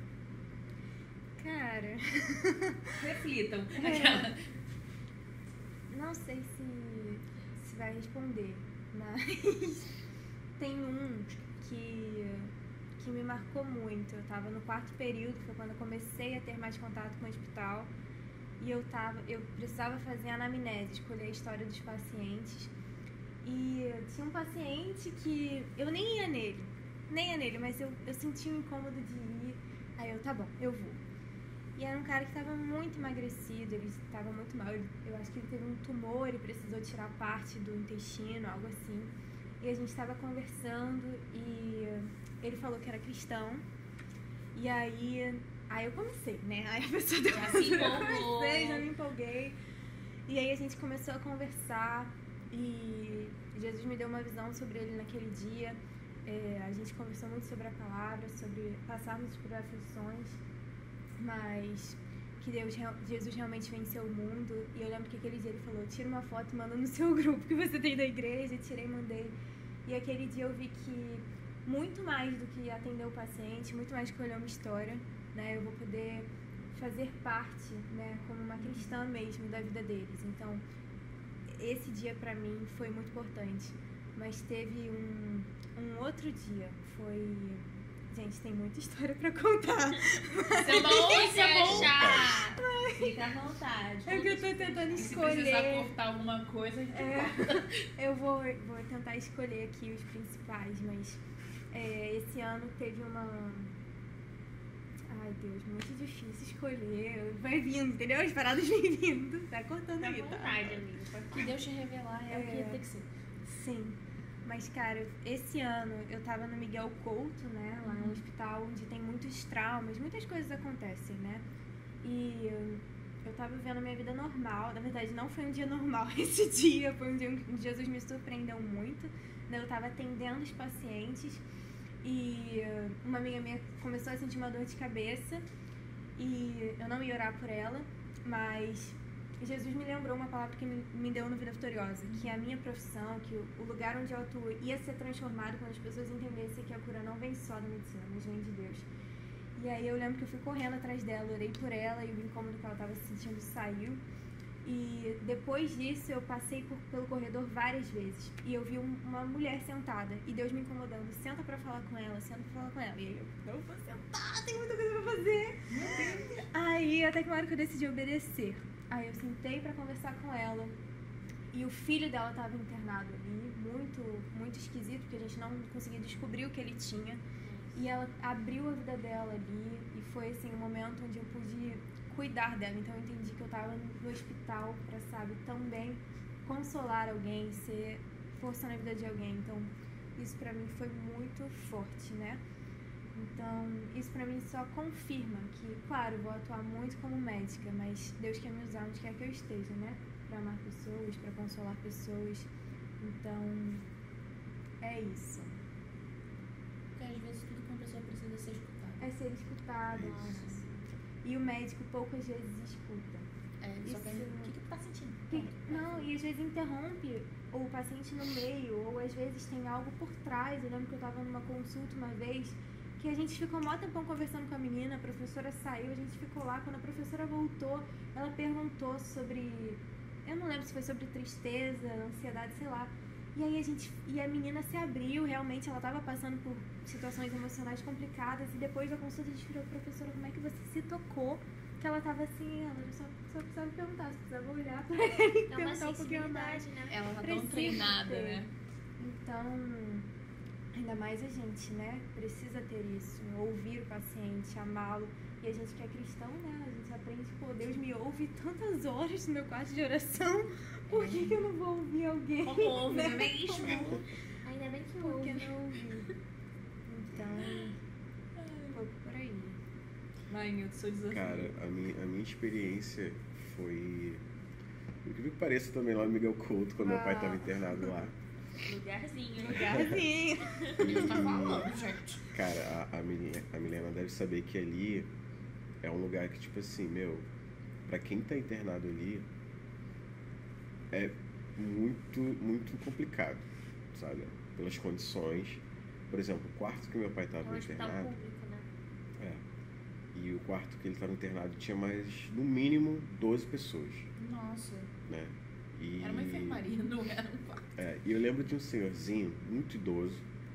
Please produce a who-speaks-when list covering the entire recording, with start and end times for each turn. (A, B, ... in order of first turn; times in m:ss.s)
0:01.4-0:02.8 A
0:03.0-0:04.4 B
0:03.8-0:04.3 A
0:05.9-0:09.9 A
0:10.6-0:17.9 A
0:18.6-0:22.7 A
0:23.4-0:31.0 A
0:31.8-0:43.6 A
0:44.5-0:49.6 A
0:47.3-0:48.9 B
0:50.3-1:00.4 A
1:01.2-1:09.3 A
1:09.8-1:20.6 A
1:18.6-1:18.9 B
1:21.5-1:31.3 A
1:30.5-1:32.3 B
1:30.6-1:32.6 C
1:31.6-1:32.3 D
1:32.5-1:33.4 A
1:32.9-1:37.8 B
1:34.0-1:35.9 A
1:36.9-1:41.2 A
1:41.7-1:43.7 A
1:45.1-1:50.7 A
1:50.0-1:51.5 C
1:51.3-1:53.1 B
1:52.3-1:52.8 A
1:53.4-2:01.4 A
1:57.8-1:58.2 B
2:02.0-2:11.4 A
2:12.0-2:15.4 A
2:16.2-2:28.9 A
2:29.6-2:34.0 A
2:34.6-2:50.8 A
2:45.7-2:46.4 B
2:51.5-2:57.2 A
2:57.4-2:57.8 C
2:57.8-3:12.4 A
3:13.1-3:22.5 A
3:23.0-3:23.8 A
3:24.8-3:25.6 A
3:27.0-3:29.1 B
3:29.0-3:30.7 A
3:30.0-3:30.6 B
3:30.0-3:30.6 C
3:31.2-3:33.3 A
3:33.6-3:36.1 B
3:33.8-3:34.5 A
3:35.3-4:08.4 A
4:05.5-4:07.0 C
4:06.9-4:08.5 B
4:09.0-4:10.1 A
4:10.7-4:24.0 A
4:20.9-4:21.5 B
4:22.4-4:24.0 B
4:24.4-4:25.5 C
4:25.0-4:26.1 A
4:26.9-4:27.8 A
4:28.4-4:28.8 B
4:28.7-4:29.6 A
4:30.3-4:31.5 B
4:31.1-4:34.2 D
4:35.0-4:38.1 D
4:36.8-4:37.9 A
4:38.6-4:40.0 C
4:39.4-4:41.0 A
4:39.6-4:40.0 D
4:40.5-4:40.8 C
4:40.8-4:41.7 D
4:40.8-4:42.2 B
4:42.3-4:45.1 D
4:45.8-4:47.3 D
4:47.8-4:49.3 D
4:50.9-4:58.1 D
4:57.4-4:58.6 C
4:59.2-4:59.4 D
5:00.1-5:04.1 D
5:04.2-5:04.9 B
5:05.0-5:06.6 D
5:06.0-5:07.7 B
5:07.8-5:10.2 D